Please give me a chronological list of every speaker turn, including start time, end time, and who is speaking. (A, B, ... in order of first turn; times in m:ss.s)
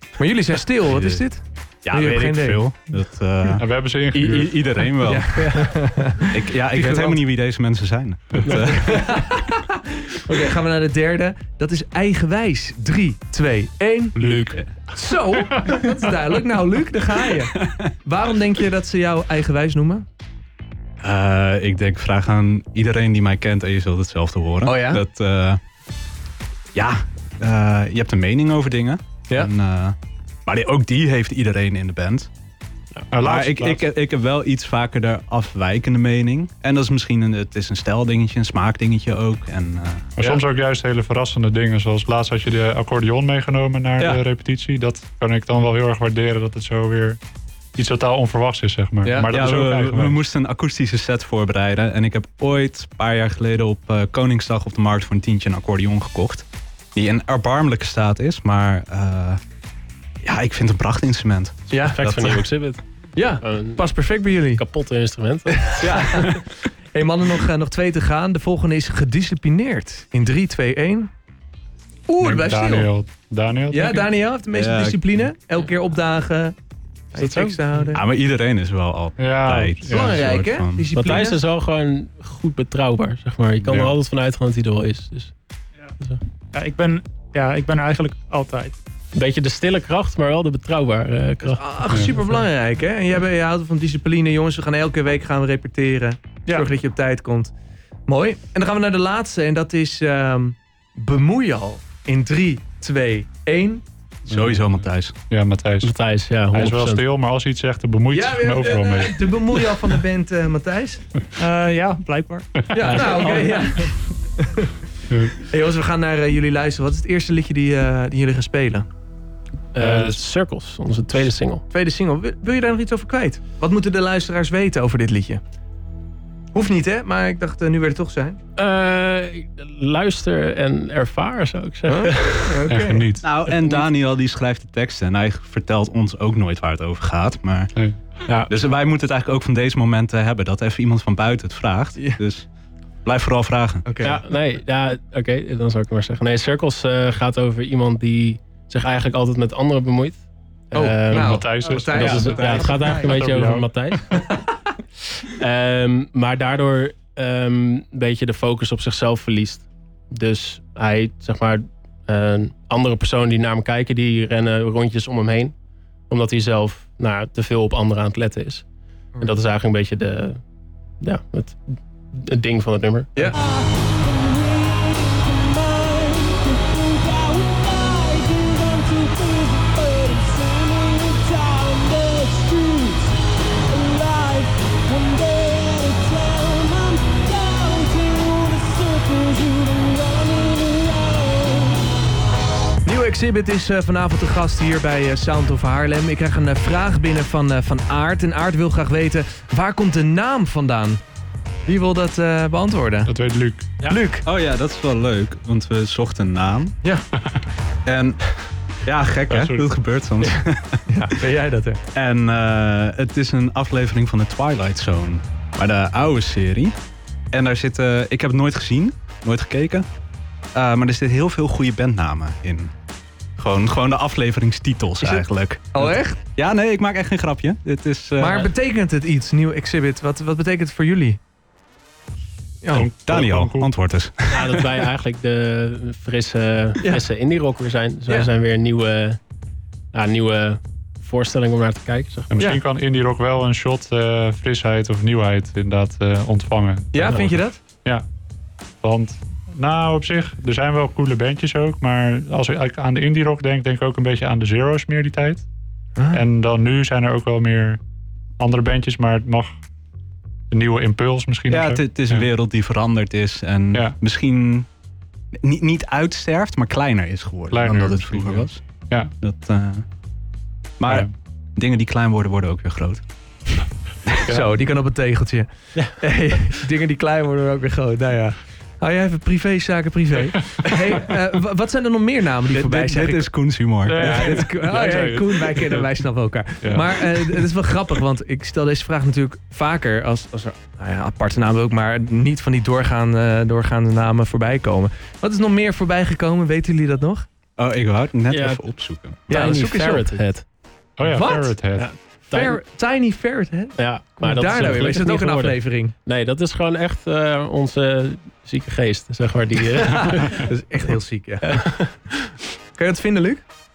0:00.2-0:02.6 A
0:00.8-0:01.2 B
0:01.8-0:03.6 B
0:03.6-0:04.6 C
0:04.1-0:07.2 A
0:04.2-0:05.6 B
0:05.4-0:05.7 D
0:06.3-0:09.4 B
0:08.4-0:08.8 D
0:08.7-0:20.0 A
0:14.2-0:14.6 C
0:14.2-0:14.7 B
0:15.5-0:15.8 C
0:17.5-0:17.9 B
0:21.0-0:25.6 B
0:24.6-0:25.0 A
0:26.7-0:32.3 B
0:33.1-0:33.8 C
0:33.2-0:40.4 B
0:40.2-0:47.2 C
0:47.8-0:50.2 C
0:49.0-0:49.3 A
0:49.3-0:59.4 B
1:00.2-1:02.5 B
1:01.7-1:02.0 A
1:01.9-1:02.8 D
1:03.1-1:04.6 A
1:03.4-1:03.8 D
1:04.6-1:06.4 D
1:05.7-1:11.1 A
1:05.9-1:06.3 B
1:12.1-1:12.9 A
1:12.2-1:14.1 C
1:13.7-1:16.5 A
1:14.5-1:15.0 B
1:17.1-1:18.0 A
1:17.9-1:20.9 B
1:19.2-1:20.2 C
1:19.9-1:21.4 A
1:20.9-1:25.3 D
1:23.6-1:23.9 C
1:26.5-1:28.8 E
1:29.1-1:31.6 D
1:31.4-1:37.5 A
1:38.1-1:43.8 A
1:44.3-1:45.1 B
1:44.3-1:45.9 C
1:45.8-1:47.0 D
1:46.5-1:49.7 C
1:48.1-1:51.0 A
1:51.4-1:53.9 E
1:52.6-1:53.4 C
1:52.7-1:54.8 A
1:55.1-1:55.4 C
1:55.4-1:58.9 A
1:59.7-2:01.6 D
1:59.8-2:00.2 C
2:01.7-2:05.4 A
2:06.5-2:08.4 A
2:08.6-2:12.6 D
2:11.8-2:13.0 A
2:12.7-2:13.2 C
2:13.2-2:17.7 B
2:13.5-2:13.8 D
2:18.5-2:22.4 B
2:23.0-2:23.8 B
2:23.8-2:24.2 A
2:24.0-2:34.2 D
2:30.7-2:33.3 A
2:31.1-2:33.7 C
2:32.0-2:32.6 B
2:34.1-2:34.5 A
2:35.2-2:45.5 D
2:46.1-2:48.6 D
2:49.2-2:50.4 D
2:51.0-2:51.6 D
2:52.1-2:53.6 D
2:54.2-3:03.1 D
3:03.7-3:11.8 D
3:12.8-3:21.0 A
3:21.6-3:23.1 A
3:23.0-3:23.7 C
3:23.8-3:24.2 A
3:24.2-3:26.8 B
3:27.8-3:31.0 B
3:29.3-3:29.7 C
3:30.3-3:31.8 A
3:31.9-3:36.7 B
3:37.3-3:39.8 B
3:40.5-3:42.7 B
3:43.4-3:48.5 B
3:45.0-3:46.2 A
3:48.2-3:51.2 A
3:52.6-3:52.9 A
3:52.7-3:53.7 C
3:53.0-3:54.7 B
3:54.3-3:59.2 D
3:59.9-4:02.3 D
4:02.3-4:08.0 C
4:06.9-4:07.6 A
4:08.8-4:15.4 C
4:16.0-4:16.2 A
4:16.1-4:17.8 C
4:18.4-4:19.5 C
4:20.5-4:22.3 C
4:21.5-4:24.7 B
4:25.3-4:28.6 B
4:27.5-4:29.1 C
4:29.2-4:29.8 B
4:30.8-4:33.0 B
4:34.2-4:34.5 C
4:34.2-4:43.3 A
4:42.5-4:44.5 B
4:43.9-4:46.0 C
4:43.9-4:57.2 A
4:46.6-4:46.9 C
4:57.6-4:59.3 B
4:58.3-4:58.6 D
4:59.3-5:00.4 D
4:59.3-5:00.1 A
5:01.0-5:01.9 C
5:01.0-5:01.5 A
5:01.8-5:02.6 D
5:02.3-5:05.9 A
5:03.8-5:10.5 D
5:09.8-5:11.6 A
5:11.5-5:12.3 D
5:12.7-5:13.4 A